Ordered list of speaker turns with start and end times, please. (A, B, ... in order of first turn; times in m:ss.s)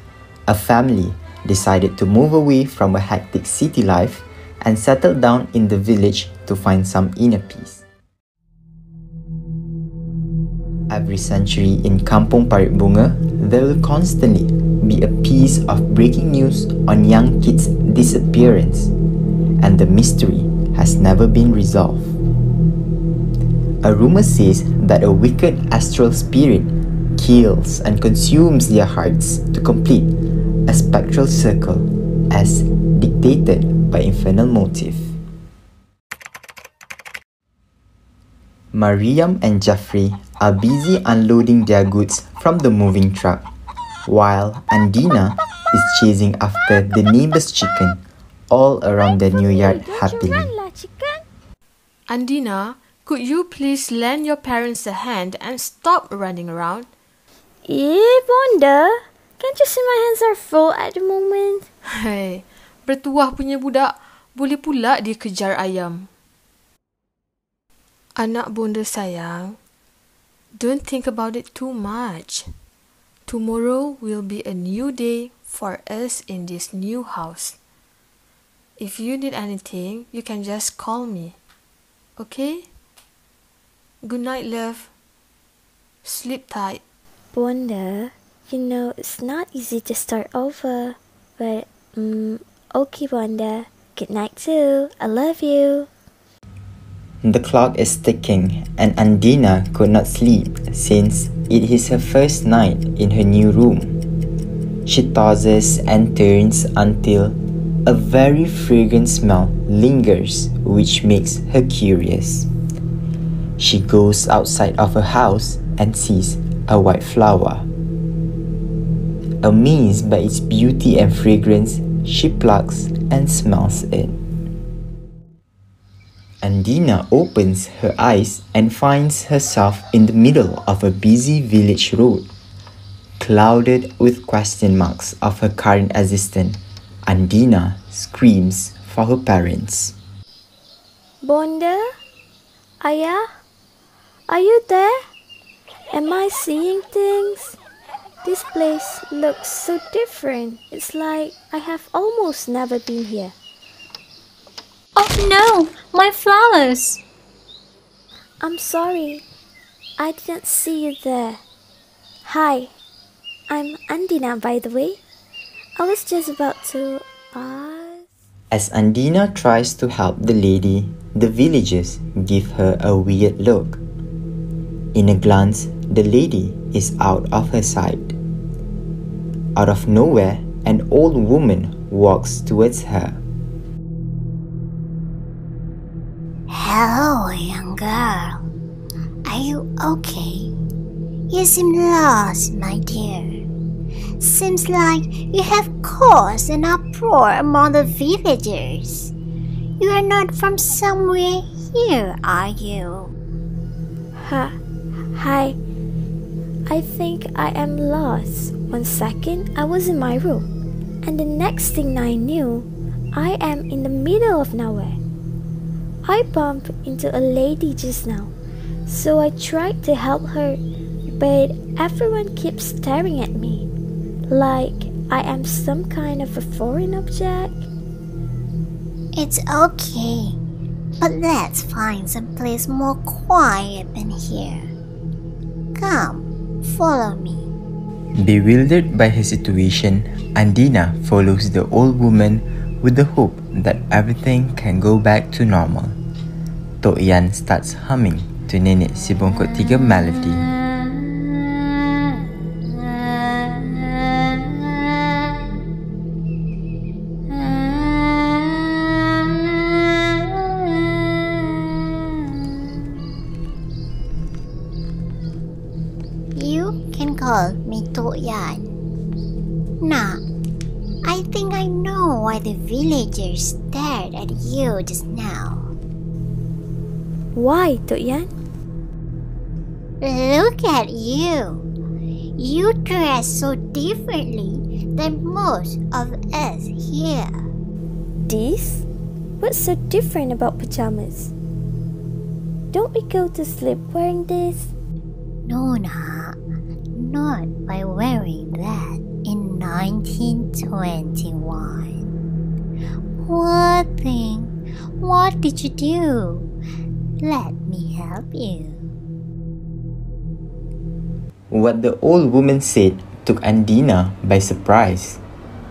0:00.5-0:07.8 A
0:10.9-0:18.9 A
0:19.6-0:22.2 A
0:23.8-0:30.1 A
0:30.7-0:35.1 A
0:38.7-0:43.4 A
0:44.1-0:50.5 A
0:49.2-0:51.2 B
0:52.1-0:56.9 C
0:57.6-1:01.7 B
1:02.0-1:06.1 C
1:08.2-1:09.6 C
1:10.6-1:12.5 C
1:13.3-1:17.6 C
1:18.8-1:21.4 C
1:22.2-1:22.6 C
1:24.0-1:24.9 C
1:26.0-1:26.8 C
1:27.3-1:35.9 B
1:37.2-1:44.0 A
1:44.8-1:52.5 A
1:53.6-1:57.7 A
1:59.4-2:04.2 A
2:06.4-2:12.3 A
2:13.2-2:19.9 A
2:21.2-2:22.0 B
2:22.8-2:23.3 B
2:24.3-2:25.0 B
2:25.9-2:27.6 B
2:28.2-2:33.3 B
2:35.0-2:37.0 D
2:38.4-2:39.2 B
2:40.0-2:41.4 B
2:42.2-2:42.7 B
2:43.5-2:45.0 B
2:45.8-2:48.0 B
2:48.5-2:53.8 A
2:54.9-2:58.2 A
2:59.6-3:03.2 A
3:06.5-3:08.4 E
3:09.2-3:10.5 E
3:11.3-3:13.4 E
3:14.2-3:19.1 E
3:19.8-3:23.1 E
3:24.1-3:24.6 B
3:25.1-3:25.6 B
3:26.7-3:30.5 B
3:31.0-3:35.0 B
3:36.0-3:38.3 B
3:38.8-3:43.7 B
3:44.3-3:47.7 B
3:49.2-3:50.4 E
3:51.0-3:54.7 E
3:55.8-3:57.5 E
3:58.2-4:06.0 A
4:06.8-4:10.5 A
4:26.3-4:28.6 E
4:29.8-4:30.2 E
4:31.0-4:35.7 E
4:37.3-4:38.3 B
4:40.0-4:41.6 E
4:42.4-4:47.3 E
4:48.2-4:48.8 B
4:49.4-4:51.3 B
4:52.7-4:54.7 B
4:55.4-4:56.4 E
4:57.0-5:02.0 E
5:03.2-5:06.5 E
5:07.2-5:08.8 E
5:11.5-5:15.2 A